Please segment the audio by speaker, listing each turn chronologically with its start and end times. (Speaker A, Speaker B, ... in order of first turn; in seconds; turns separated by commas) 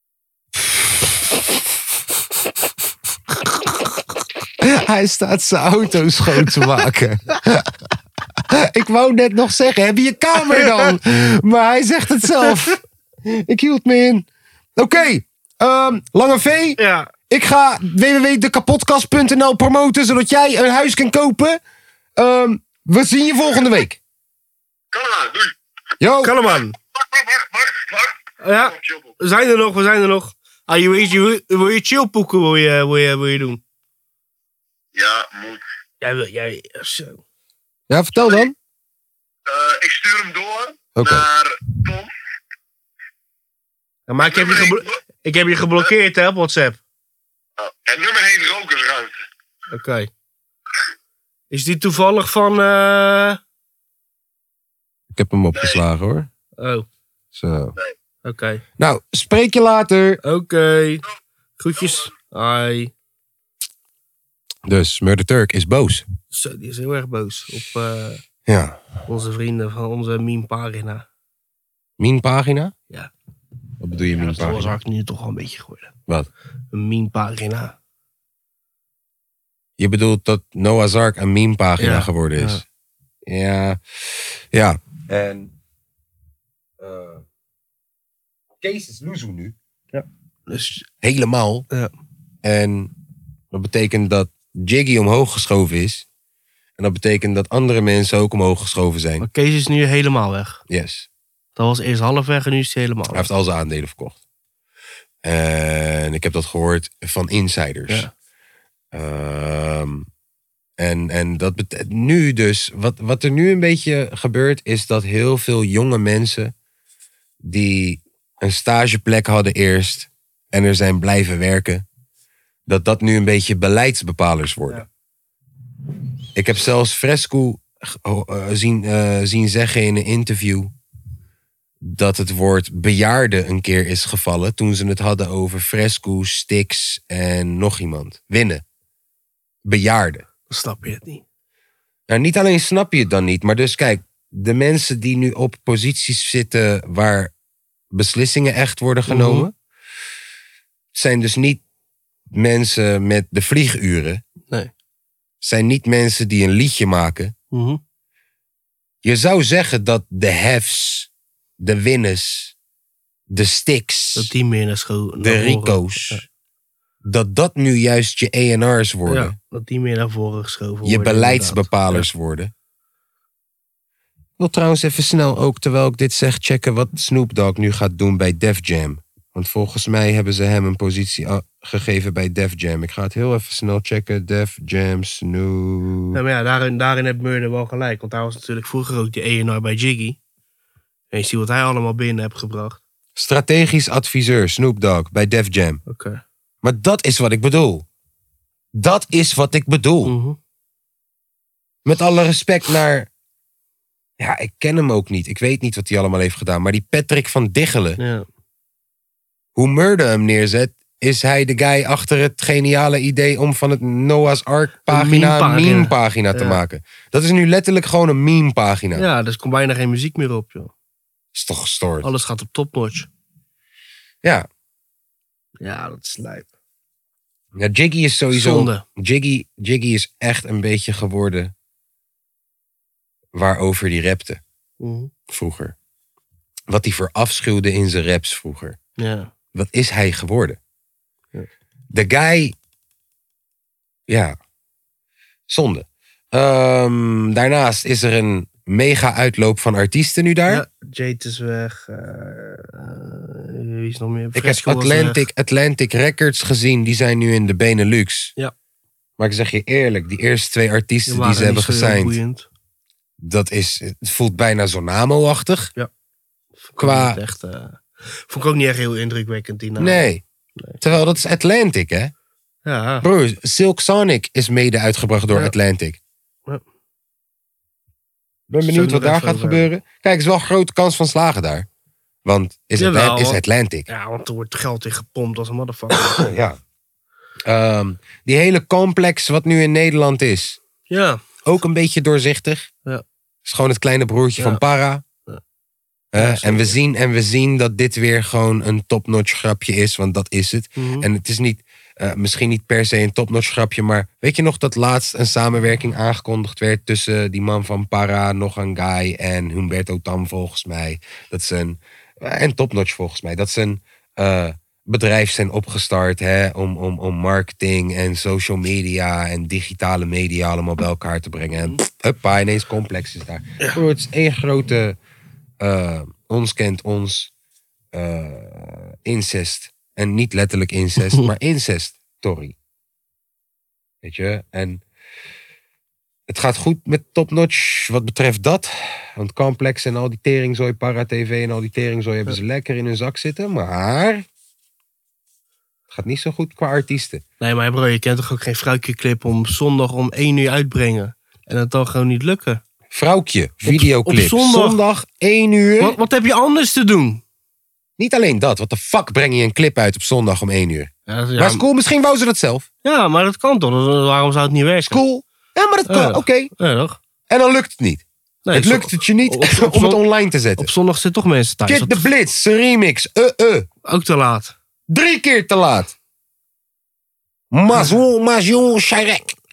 Speaker A: 0.6-1.3, Speaker A: 3.4-3.7, Speaker A: 4.6-7.7, Speaker A: 8.5-21.6, Speaker B: 10.4-10.9, Speaker B: 16.8-17.1, Speaker A: 22.1-24.0, Speaker C: 24.9-25.5, Speaker A: 26.0-26.4, Speaker B: 26.2-26.7, Speaker C: 26.9-29.1, Speaker B: 28.4-33.6, Speaker C: 34.9-35.6, Speaker B: 36.0-37.2, Speaker A: 37.9-38.5, Speaker C: 38.1-38.5, Speaker C: 39.5-42.1, Speaker A: 41.0-41.2, Speaker B: 44.1-46.8, Speaker C: 44.2-45.0, Speaker C: 47.6-49.1, Speaker B: 49.7-50.1, Speaker B: 51.5-53.4, Speaker A: 55.1-56.3, Speaker C: 55.5-55.8, Speaker B: 56.6-56.9, Speaker A: 57.3-57.7, Speaker B: 58.2-58.6, Speaker A: 58.8-60.2, Speaker B: 60.2-61.0, Speaker B: 61.6-62.9, Speaker C: 61.8-62.1, Speaker A: 64.7-66.0, Speaker B: 66.3-68.2, Speaker A: 68.5-68.8, Speaker B: 69.0-71.0, Speaker A: 72.0-72.7, Speaker A: 73.8-74.8, Speaker B: 74.0-75.9, Speaker B: 76.7-77.7, Speaker A: 79.8-82.6, Speaker B: 81.8-82.6, Speaker A: 83.2-85.5, Speaker A: 86.8-87.2, Speaker A: 88.6-89.5, Speaker B: 89.9-90.8, Speaker A: 91.0-91.7, Speaker A: 92.4-92.9, Speaker A: 93.5-96.0, Speaker A: 96.8-99.3, Speaker B: 99.2-100.6, Speaker A: 100.7-101.1, Speaker B: 101.5-103.3, Speaker A: 103.1-104.2, Speaker A: 105.2-108.1, Speaker A: 108.9-110.1, Speaker A: 110.8-116.5, Speaker A: 117.4-121.8, Speaker A: 122.7-124.8, Speaker A: 126.3-130.7, Speaker A: 131.8-138.6, Speaker A: 139.6-140.2, Speaker B: 140.5-141.2, Speaker A: 142.1-147.3, Speaker A: 147.9-149.5, Speaker B: 149.1-149.5, Speaker A: 150.9-151.6, Speaker A: 152.3-154.2, Speaker A: 155.4-157.3, Speaker B: 157.5-157.8, Speaker A: 159.0-162.5, Speaker A: 163.3-164.3, Speaker B: 164.1-166.2, Speaker A: 165.2-166.2, Speaker A: 167.0-169.3, Speaker B: 169.1-172.1, Speaker A: 170.8-172.5, Speaker A: 174.4-186.2, Speaker B: 186.1-190.2, Speaker B: 191.1-192.8, Speaker A: 193.2-195.8, Speaker B: 195.9-196.2, Speaker A: 196.6-197.8, Speaker A: 198.8-200.1, Speaker B: 200.0-200.4, Speaker A: 201.8-203.1, Speaker A: 204.2-208.0, Speaker B: 208.0-208.2, Speaker A: 209.5-219.1, Speaker B: 214.9-216.6, Speaker B: 218.9-220.7, Speaker A: 221.3-222.1, Speaker B: 222.0-223.1, Speaker B: 225.6-226.5, Speaker A: 227.6-231.5, Speaker B: 228.3-228.8, Speaker A: 233.3-234.4, Speaker B: 234.8-235.1, Speaker A: 235.3-235.7, Speaker A: 236.7-238.8, Speaker B: 239.0-239.3, Speaker A: 239.5-240.6, Speaker A: 241.9-242.5, Speaker A: 244.1-244.4, Speaker A: 245.5-250.6, Speaker B: 250.5-255.2, Speaker A: 254.3-258.3, Speaker A: 259.2-262.2, Speaker B: 261.1-262.4, Speaker A: 263.2-265.7, Speaker B: 266.6-270.8, Speaker A: 266.8-267.2, Speaker A: 269.8-270.2, Speaker A: 270.8-272.1, Speaker B: 272.6-273.1, Speaker A: 273.0-276.0, Speaker A: 278.5-281.7, Speaker B: 278.6-279.6, Speaker A: 282.2-283.9, Speaker B: 282.8-286.2, Speaker A: 286.0-286.6, Speaker A: 287.4-290.6, Speaker B: 290.9-291.2, Speaker A: 291.4-292.7, Speaker A: 293.4-295.0, Speaker A: 296.1-325.0, Speaker B: 296.1-296.8, Speaker B: 300.8-301.1, Speaker A: 325.6-327.3, Speaker A: 327.9-332.5, Speaker A: 334.0-334.8, Speaker A: 336.3-344.2, Speaker A: 345.9-347.2, Speaker B: 347.4-352.6, Speaker A: 352.9-356.0, Speaker B: 353.6-354.8, Speaker B: 355.8-357.2, Speaker A: 358.0-362.6, Speaker B: 361.1-361.6, Speaker B: 362.8-365.0, Speaker A: 364.9-366.5, Speaker B: 365.9-367.0, Speaker A: 367.3-370.7, Speaker B: 368.4-370.0, Speaker B: 370.6-372.1, Speaker A: 371.6-373.7, Speaker B: 373.9-374.5, Speaker A: 374.9-375.9, Speaker A: 377.5-379.3